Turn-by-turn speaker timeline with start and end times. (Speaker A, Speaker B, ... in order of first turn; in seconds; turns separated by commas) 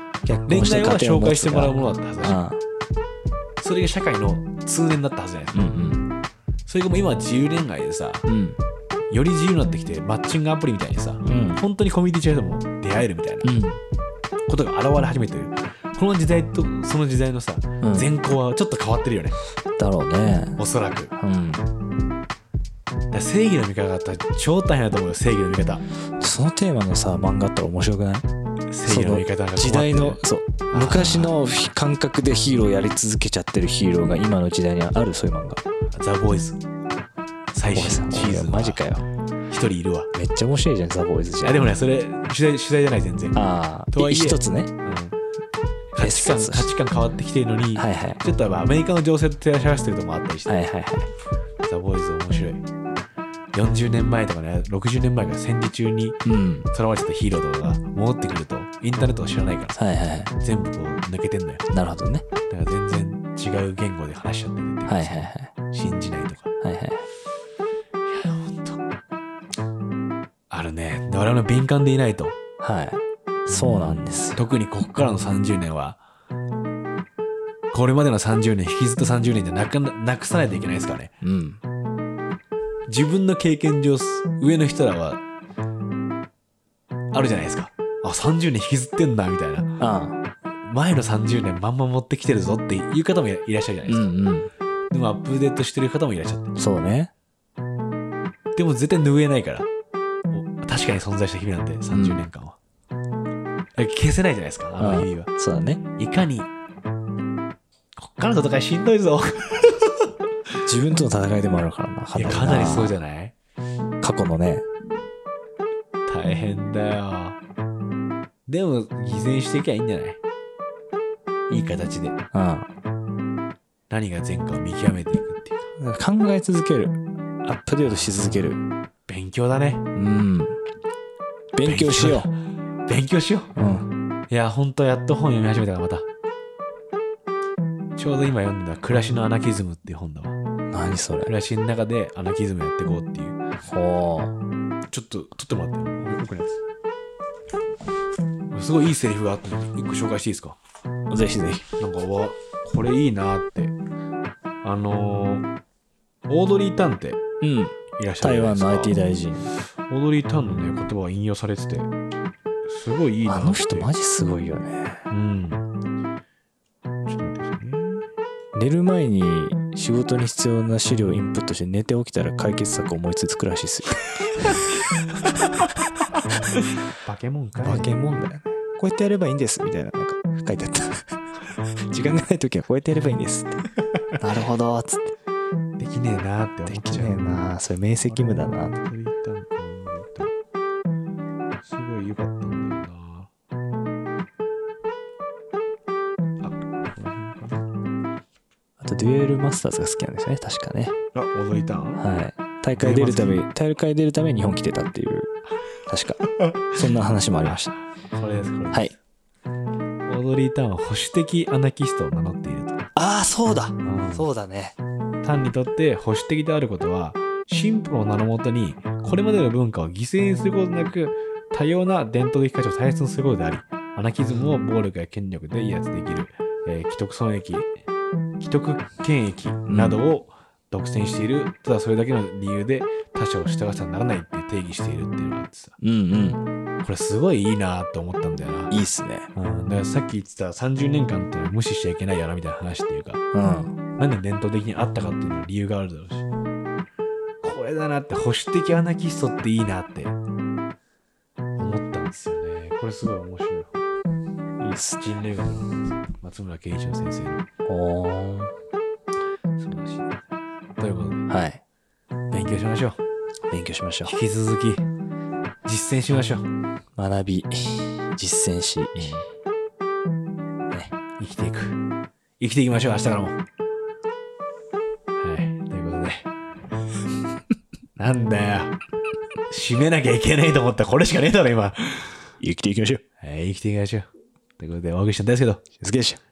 Speaker A: 0.3-2.6, Speaker B: 0.5-2.4, Speaker B: 3.6-5.6, Speaker A: 5.5-6.1, Speaker B: 6.7-8.2, Speaker A: 8.3-8.6, Speaker B: 9.1-13.5, Speaker A: 11.2-11.6, Speaker A: 13.4-13.8, Speaker B: 14.5-19.4, Speaker A: 17.8-18.1, Speaker A: 19.8-20.6, Speaker B: 20.6-21.1, Speaker A: 21.1-21.7, Speaker B: 23.1-25.8, Speaker A: 26.2-28.3, Speaker B: 28.7-31.4, Speaker A: 28.9-35.6, Speaker B: 35.9-36.6, Speaker B: 37.5-38.9, Speaker A: 37.7-39.0, Speaker B: 39.5-40.1, Speaker A: 40.1-41.8, Speaker B: 41.4-43.4, Speaker A: 43.3-44.7, Speaker B: 43.9-45.2, Speaker B: 45.9-50.6, Speaker A: 46.0-46.7, Speaker A: 47.8-48.2, Speaker A: 50.5-51.1, Speaker B: 51.6-52.6, Speaker B: 53.5-59.8, Speaker A: 56.2-56.7, Speaker A: 59.8-60.3, Speaker B: 60.4-61.6, Speaker A: 61.7-62.3, Speaker B: 62.5-66.5, Speaker A: 64.9-65.5, Speaker A: 66.6-67.1, Speaker B: 68.0-68.8, Speaker B: 70.5-72.4, Speaker A: 72.6-74.5, Speaker B: 73.5-76.0, Speaker B: 77.7-81.1, Speaker A: 81.2-81.6, Speaker B: 82.9-85.2, Speaker B: 87.1-89.7, Speaker A: 89.8-90.2, Speaker B: 90.6-94.1, Speaker A: 93.9-94.5, Speaker B: 94.9-96.5, Speaker A: 96.6-97.1, Speaker B: 98.5-99.7, Speaker B: 100.3-102.6, Speaker A: 101.9-102.2, Speaker B: 103.8-105.3, Speaker A: 104.8-105.8, Speaker B: 106.0-106.5, Speaker B: 108.0-110.1, Speaker A: 110.7-112.9, Speaker B: 112.1-113.3, Speaker A: 114.0-114.7, Speaker B: 116.1-117.4, Speaker B: 118.5-120.2, Speaker B: 121.5-122.2, Speaker A: 122.3-122.7, Speaker B: 123.9-125.7, Speaker A: 125.8-128.6, Speaker B: 127.9-128.5, Speaker B: 129.1-129.8, Speaker A: 129.9-130.6, Speaker A: 131.5-132.3, Speaker B: 131.6-133.6, Speaker A: 133.6-133.9, Speaker B: 134.3-136.1, Speaker B: 138.0-140.4, Speaker A: 140.7-141.3, Speaker B: 141.3-143.4, Speaker A: 143.7-144.3, Speaker B: 144.9-146.6, Speaker B: 148.5-150.6, Speaker A: 151.1-151.7, Speaker B: 151.8-153.8, Speaker B: 154.6-155.5, Speaker B: 156.3-157.2, Speaker A: 157.4-159.5, Speaker B: 158.0-159.0, Speaker B: 159.9-161.9, Speaker B: 162.7-163.9, Speaker A: 163.2-165.1, Speaker B: 165.1-165.6, Speaker B: 167.1-168.1, Speaker A: 168.5-174.0, Speaker B: 176.9-177.9, Speaker A: 177.6-185.1, Speaker B: 185.8-187.2, Speaker A: 186.7-188.8, Speaker B: 188.1-190.3, Speaker B: 191.6-193.3, Speaker B: 196.4-197.7, Speaker A: 198.8-201.0, Speaker B: 201.1-202.0, Speaker A: 202.0-205.3, Speaker B: 202.7-203.4, Speaker A: 205.9-207.7, Speaker B: 206.4-206.8, Speaker B: 207.4-209.0, Speaker B: 210.1-212.9, Speaker A: 212.9-214.8, Speaker B: 213.8-214.3, Speaker B: 215.2-227.7, Speaker B: 228.4-235.8, Speaker A: 229.7-230.0, Speaker A: 235.8-236.4, Speaker B: 236.8-238.7, Speaker A: 238.7-239.3, Speaker B: 239.3-243.2, Speaker A: 243.3-243.7, Speaker B: 244.0-246.3, Speaker B: 247.4-250.2, Speaker B: 251.6-253.8, Speaker A: 254.6-255.0, Speaker B: 255.0-257.4, Speaker A: 257.6-258.5, Speaker B: 259.6-260.2, Speaker B: 260.8-261.2, Speaker A: 261.3-261.6, Speaker B: 262.3-263.0, Speaker A: 263.5-264.1, Speaker B: 264.1-264.9, Speaker B: 265.6-266.5, Speaker A: 267.0-269.2, Speaker B: 269.0-269.3, Speaker B: 271.2-271.8, Speaker B: 272.4-273.4, Speaker B: 275.2-276.3, Speaker B: 278.0-278.8, Speaker B: 279.5-282.3, Speaker A: 282.4-283.0, Speaker B: 283.2-284.1, Speaker B: 284.6-285.7, Speaker A: 285.8-286.2